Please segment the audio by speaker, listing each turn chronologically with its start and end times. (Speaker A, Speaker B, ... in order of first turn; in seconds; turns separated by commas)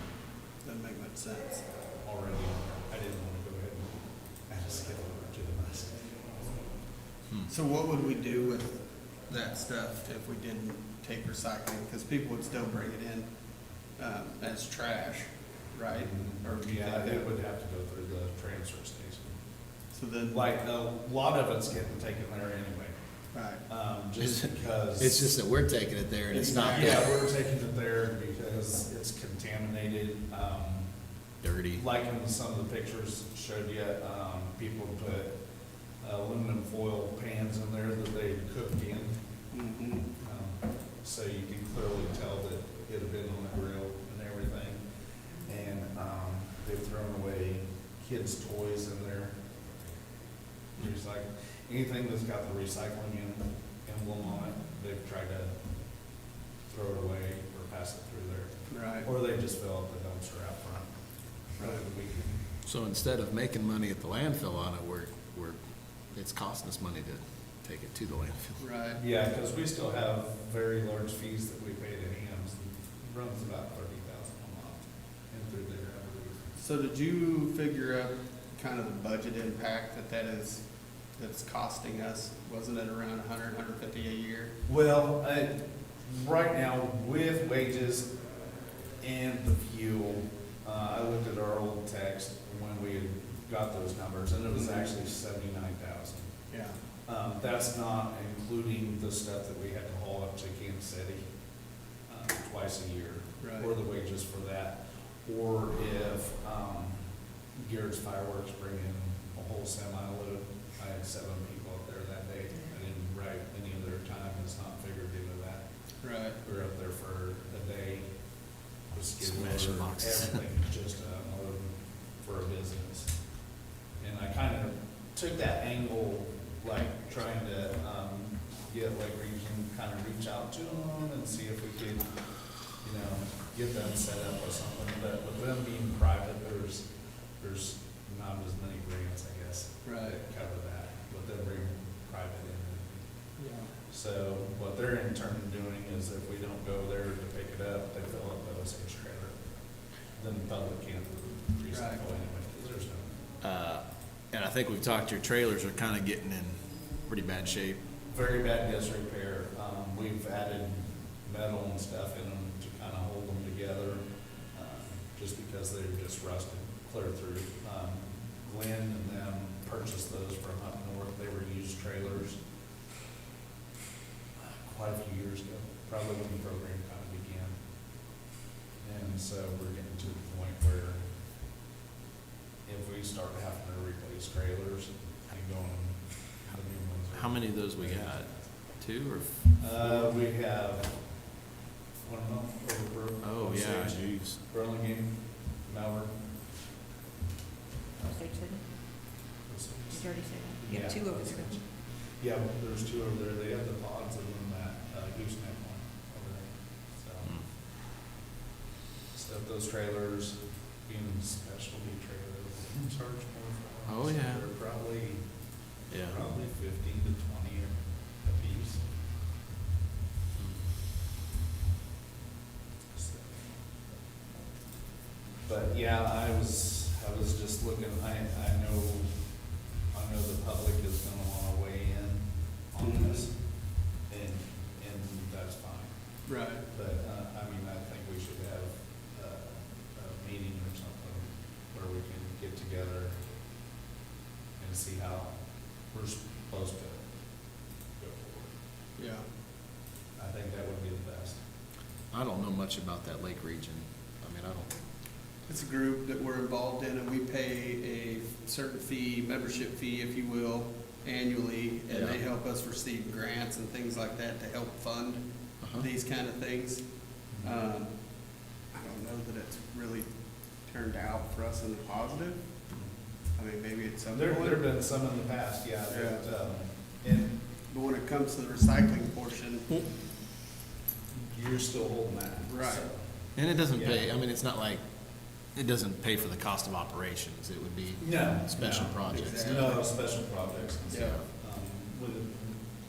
Speaker A: 0.6-1.6, Speaker B: 2.0-6.6, Speaker A: 7.5-13.3, Speaker A: 14.0-17.3, Speaker B: 15.9-19.4, Speaker A: 19.9-20.4, Speaker B: 20.3-22.9, Speaker A: 23.3-23.6, Speaker B: 23.7-25.3, Speaker C: 24.2-27.1, Speaker A: 26.3-27.1, Speaker B: 26.6-30.9, Speaker C: 31.4-31.8, Speaker B: 31.7-35.3, Speaker B: 36.0-39.2, Speaker A: 39.5-40.1, Speaker B: 40.2-44.8, Speaker B: 45.4-49.4, Speaker B: 50.8-55.5, Speaker B: 56.7-60.9, Speaker A: 58.7-59.1, Speaker B: 61.5-62.4, Speaker C: 62.6-65.6, Speaker C: 66.1-68.6, Speaker A: 68.6-69.0, Speaker B: 69.0-76.4, Speaker A: 76.6-80.6, Speaker A: 81.2-84.5, Speaker B: 84.7-88.2, Speaker B: 89.0-96.3, Speaker A: 94.5-94.9, Speaker A: 96.5-96.8, Speaker B: 97.0-101.2, Speaker B: 102.1-107.0, Speaker A: 103.4-103.7, Speaker B: 107.5-115.6, Speaker A: 116.0-116.4, Speaker B: 116.4-118.0, Speaker B: 118.9-123.2, Speaker C: 119.2-120.4, Speaker B: 124.0-132.1, Speaker B: 132.7-136.8, Speaker B: 137.4-143.1, Speaker A: 139.8-140.2, Speaker A: 143.4-143.7, Speaker B: 143.9-149.4, Speaker B: 150.1-153.1, Speaker A: 151.7-152.0, Speaker C: 153.4-157.8, Speaker B: 158.1-172.4, Speaker B: 174.6-177.6, Speaker B: 178.8-181.0, Speaker B: 182.7-188.1, Speaker C: 187.1-190.2, Speaker B: 189.6-191.2, Speaker B: 192.0-196.1, Speaker C: 193.2-194.4, Speaker B: 198.0-198.2, Speaker D: 198.1-198.6, Speaker B: 199.4-207.3, Speaker D: 199.9-201.6, Speaker B: 209.1-215.2, Speaker C: 213.9-214.4, Speaker C: 215.9-216.2, Speaker B: 215.9-218.8, Speaker C: 220.3-220.6, Speaker B: 222.9-223.4, Speaker B: 225.4-229.2, Speaker B: 229.9-235.9, Speaker A: 232.8-233.3, Speaker A: 236.2-236.6, Speaker B: 236.7-243.2, Speaker B: 244.6-247.1, Speaker B: 247.9-248.5, Speaker A: 249.0-249.2, Speaker B: 250.2-251.4, Speaker C: 252.1-254.7, Speaker A: 255.5-267.9, Speaker C: 261.9-262.2, Speaker C: 265.6-265.9, Speaker B: 267.3-267.6, Speaker A: 268.7-270.1, Speaker A: 270.6-272.4, Speaker A: 273.4-274.6, Speaker B: 274.1-277.4, Speaker A: 275.9-276.2, Speaker A: 277.7-279.7, Speaker B: 281.3-284.1, Speaker A: 282.5-282.9, Speaker C: 283.3-284.8, Speaker C: 285.5-289.7, Speaker B: 288.0-292.6, Speaker A: 289.1-289.9, Speaker A: 290.9-291.2, Speaker C: 290.9-291.2